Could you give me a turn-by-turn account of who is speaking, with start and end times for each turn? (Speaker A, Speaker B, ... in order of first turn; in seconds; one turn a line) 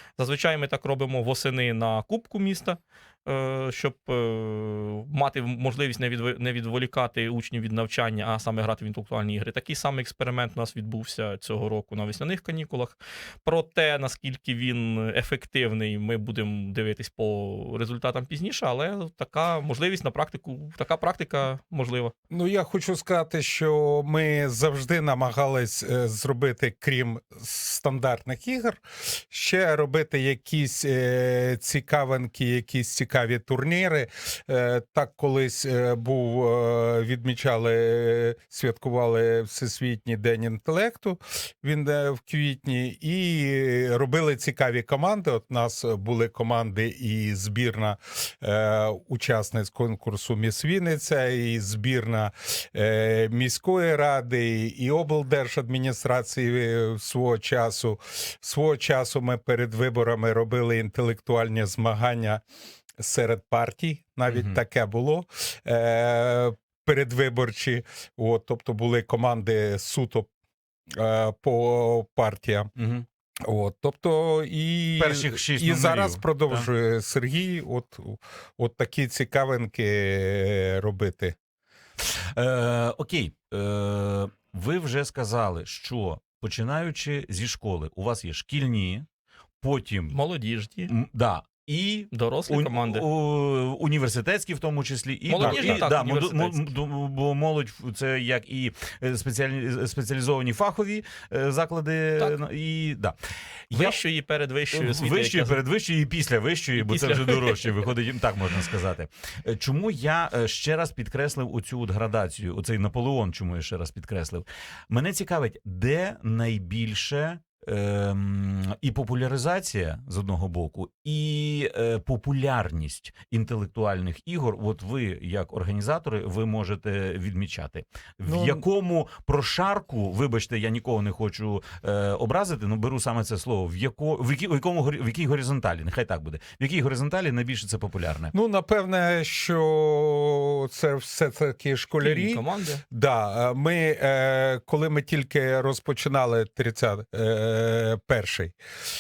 Speaker A: 0.2-22.1
Speaker B: 22.3-62.4
Speaker B: 63.0-70.3
Speaker C: 64.3-64.6
Speaker B: 70.9-72.7
Speaker C: 72.8-73.0
Speaker B: 73.5-81.3
Speaker C: 75.0-76.7
Speaker C: 82.3-89.0
Speaker C: 89.6-90.2
Speaker A: 90.1-90.9
Speaker C: 90.9-103.2
Speaker A: 92.1-93.0
Speaker A: 95.3-96.7
Speaker B: 95.4-95.8
Speaker C: 103.7-104.0
Speaker A: 103.7-105.6
Speaker C: 104.7-138.3
Speaker A: 106.8-107.7
Speaker B: 128.2-128.6
Speaker B: 138.3-148.5
Speaker A: 142.0-142.8